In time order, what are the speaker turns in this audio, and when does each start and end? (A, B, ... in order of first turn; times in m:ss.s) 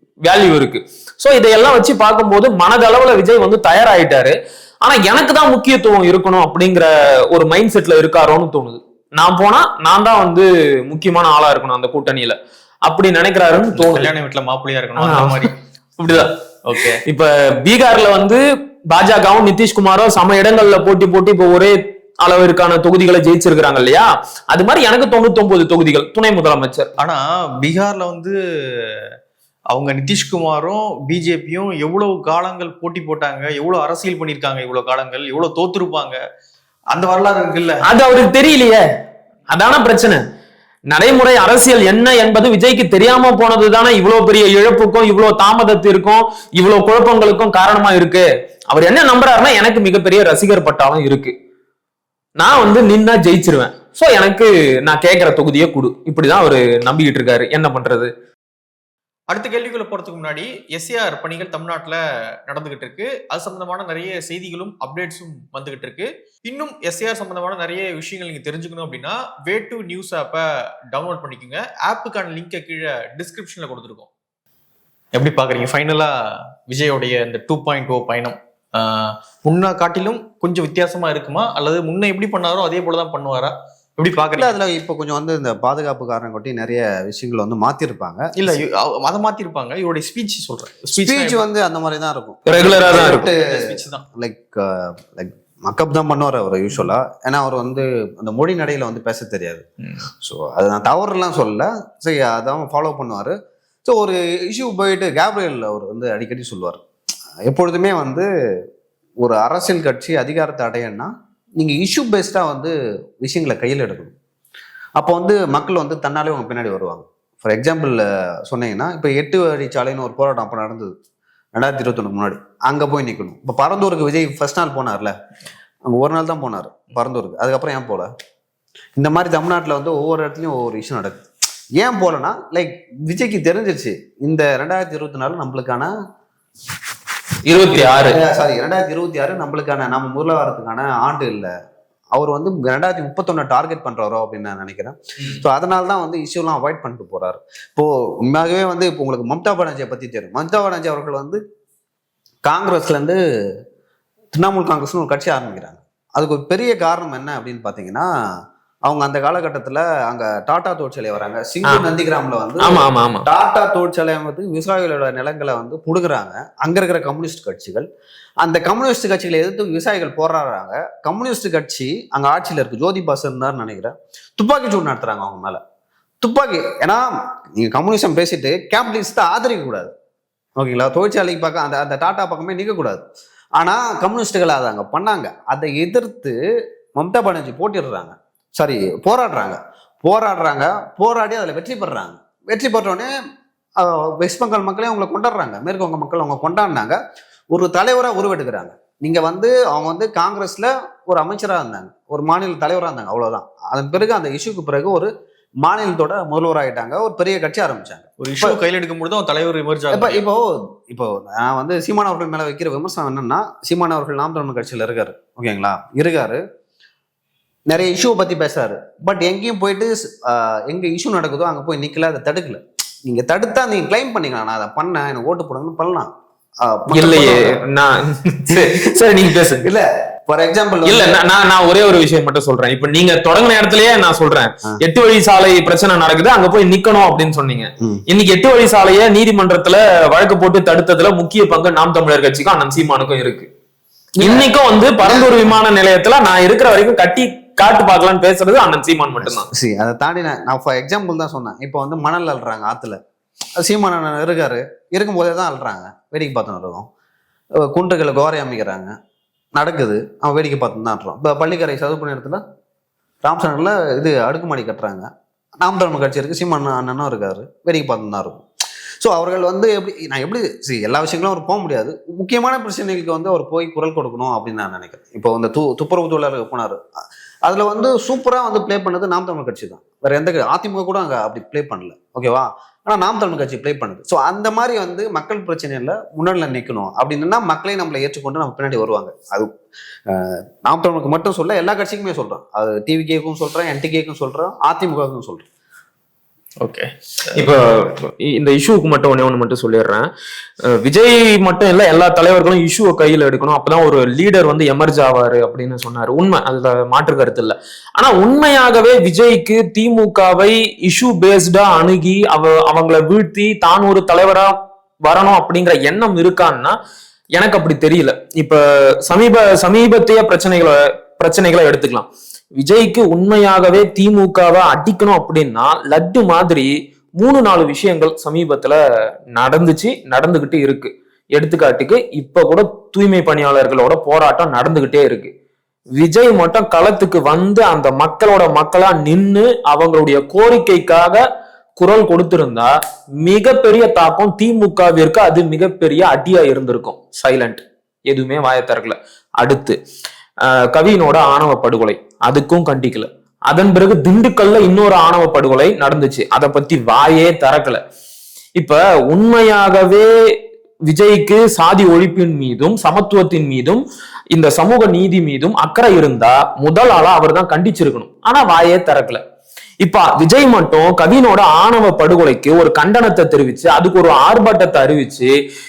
0:00.2-0:14.1 A
0:13.8-0:15.6 B
0:15.0-0:16.3 A
0:16.2-0:17.0 B
0:17.0-0:26.9 A
0:27.0-0:29.1 B
0:29.7-0:36.2 B
0:36.9-0:37.8 B
0:37.8-0:38.8 A
0:39.5-0:40.2 A
0:40.9-0:51.3 A
0:52.4-0:58.1 A
0:59.3-1:14.1 B
1:15.1-1:24.6 B
1:24.4-1:28.6 C
1:28.4-1:31.4 B
1:31.0-1:39.6 C
1:32.5-1:33.3 A
1:32.7-1:34.0 B
1:39.8-1:40.1 B
1:40.2-1:46.8 C
1:47.5-1:48.3 C
1:49.2-1:54.1 C
1:55.0-2:00.9 C
2:01.6-2:05.1 C
2:05.9-2:08.1 C
2:09.0-2:11.2 C
2:11.8-2:15.9 C
2:17.5-2:18.2 A
2:17.7-2:21.5 C
2:22.1-2:31.4 C
2:32.4-2:33.2 C
2:34.3-2:38.1 C
2:38.9-2:47.9 C
2:42.6-2:43.3 A
2:48.4-2:55.6 C
2:56.2-2:59.9 C
3:00.6-3:03.0 C
3:03.6-3:06.4 C
3:07.0-3:13.1 C
3:13.8-3:17.0 C
3:17.5-3:25.1 C
3:25.6-3:28.6 C
3:28.2-3:30.2 B
3:29.9-3:36.4 C
3:37.7-3:47.6 C
3:46.9-3:49.7 A
3:48.5-3:48.9 C
3:49.6-3:51.2 C
3:50.8-4:03.5 A
4:04.2-4:05.5 C
4:04.2-4:09.5 A
4:09.2-4:13.0 C
4:13.6-4:16.9 C
4:17.6-4:18.9 C
4:19.6-4:22.4 C
4:23.2-4:25.1 C
4:25.6-4:28.4 C
4:29.0-4:36.8 C
4:37.5-4:49.5 C
4:50.1-4:55.5 C
4:56.6-4:57.3 B
4:57.4-5:00.1 A
5:00.6-5:16.8 A
5:17.4-5:28.8 A
5:29.4-5:35.3 A
5:36.0-5:41.2 A
5:41.8-5:42.7 A
5:43.2-5:49.8 A
5:50.4-5:57.8 A
5:58.6-6:00.1 A
6:00.9-6:09.2 A
6:09.8-6:15.3 A